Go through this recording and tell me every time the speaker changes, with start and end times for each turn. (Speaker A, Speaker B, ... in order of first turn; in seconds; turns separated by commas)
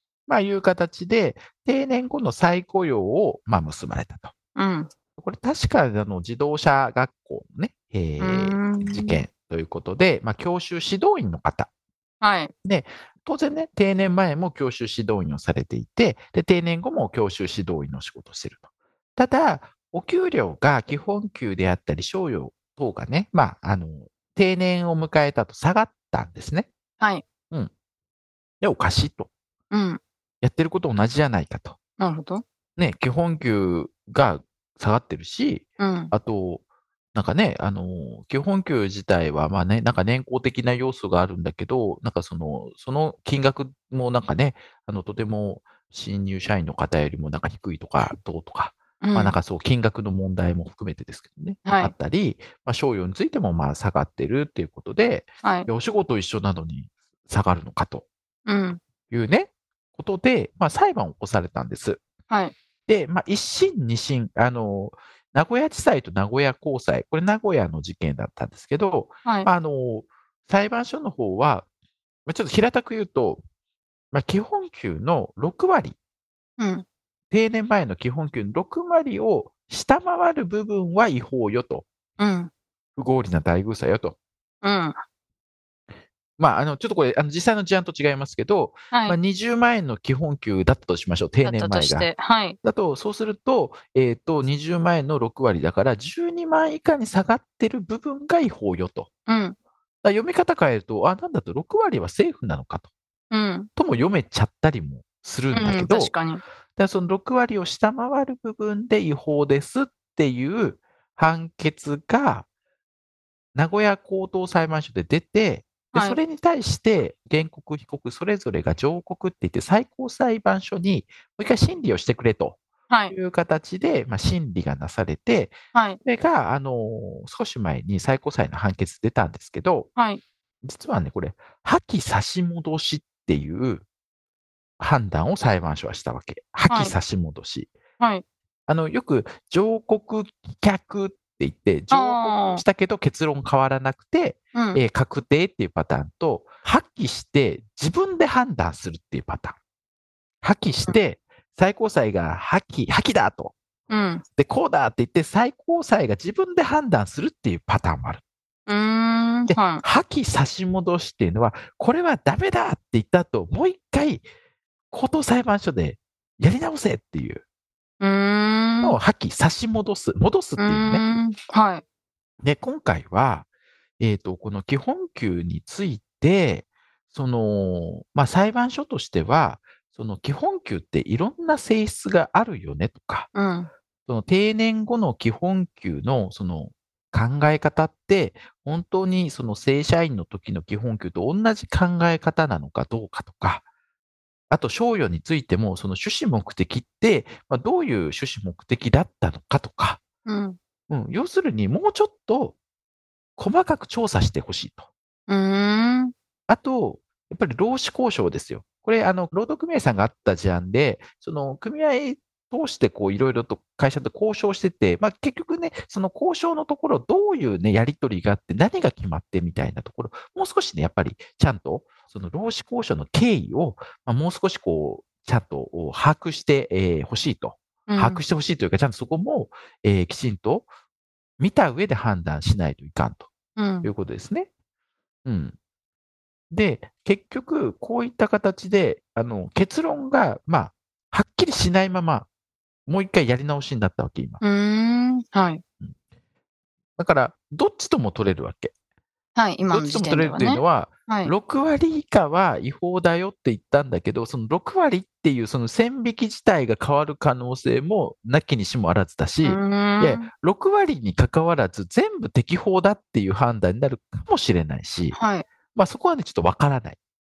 Speaker A: 0.3-4.3, Speaker B: 4.5-4.9, Speaker A: 5.2-11.7, Speaker B: 8.2-9.2, Speaker B: 12.2-12.5, Speaker A: 12.6-26.7, Speaker A: 28.6-29.3, Speaker B: 29.7-30.0, Speaker A: 30.4-31.8, Speaker B: 32.0-32.4, Speaker A: 32.8-36.6, Speaker B: 35.8-36.1, Speaker A: 37.1-58.1, Speaker B: 49.0-49.4, Speaker B: 51.6-51.9, Speaker B: 55.4-55.7, Speaker B: 58.5-58.8, Speaker A: 59.1-62.0, Speaker A: 62.9-71.7, Speaker A: 72.2-73.4, Speaker A: 74.1-76.0, Speaker B: 76.6-76.8, Speaker A: 77.3-81.8, Speaker B: 82.2-82.5, Speaker A: 83.0-84.2, Speaker B: 84.6-85.0, Speaker A: 86.4-92.1, Speaker B: 88.9-89.2, Speaker B: 91.4-92.6, Speaker A: 92.6-99.1, Speaker B: 99.3-99.6, Speaker A: 100.0-102.9, Speaker B: 103.3-103.7, Speaker A: 103.8-106.1, Speaker B: 105.5-106.4, Speaker A: 106.8-112.5, Speaker A: 113.5-122.6, Speaker B: 115.9-116.2, Speaker A: 123.1-129.9, Speaker B: 125.7-126.0, Speaker B: 129.9-130.2, Speaker A: 130.6-133.8, Speaker A: 134.8-137.7, Speaker B: 136.7-136.9, Speaker A: 138.7-149.6, Speaker B: 141.9-142.6, Speaker B: 144.5-144.8, Speaker A: 150.4-153.6, Speaker B: 153.9-154.2, Speaker A: 154.4-158.2, Speaker B: 158.7-159.8, Speaker A: 159.5-164.2, Speaker A: 164.9-167.4, Speaker B: 168.0-169.0, Speaker A: 168.8-171.0, Speaker B: 170.6-171.8, Speaker A: 172.4-173.5, Speaker A: 174.0-183.3, Speaker B: 183.3-183.7, Speaker A: 184.1-193.6, Speaker A: 194.5-200.0, Speaker B: 200.2-200.6, Speaker A: 200.9-202.6, Speaker A: 203.4-204.9, Speaker B: 205.3-206.1, Speaker A: 206.5-230.7, Speaker B: 227.9-228.2, Speaker A: 231.4-233.3, Speaker B: 233.6-233.9, Speaker A: 233.8-234.5, Speaker A: 235.2-235.6, Speaker A: 236.5-242.3, Speaker A: 242.8-244.4, Speaker B: 244.4-245.6, Speaker A: 247.0-248.7, Speaker B: 249.3-251.3, Speaker A: 249.7-265.2, Speaker B: 259.4-260.3, Speaker B: 265.1-265.5, Speaker A: 265.7-267.0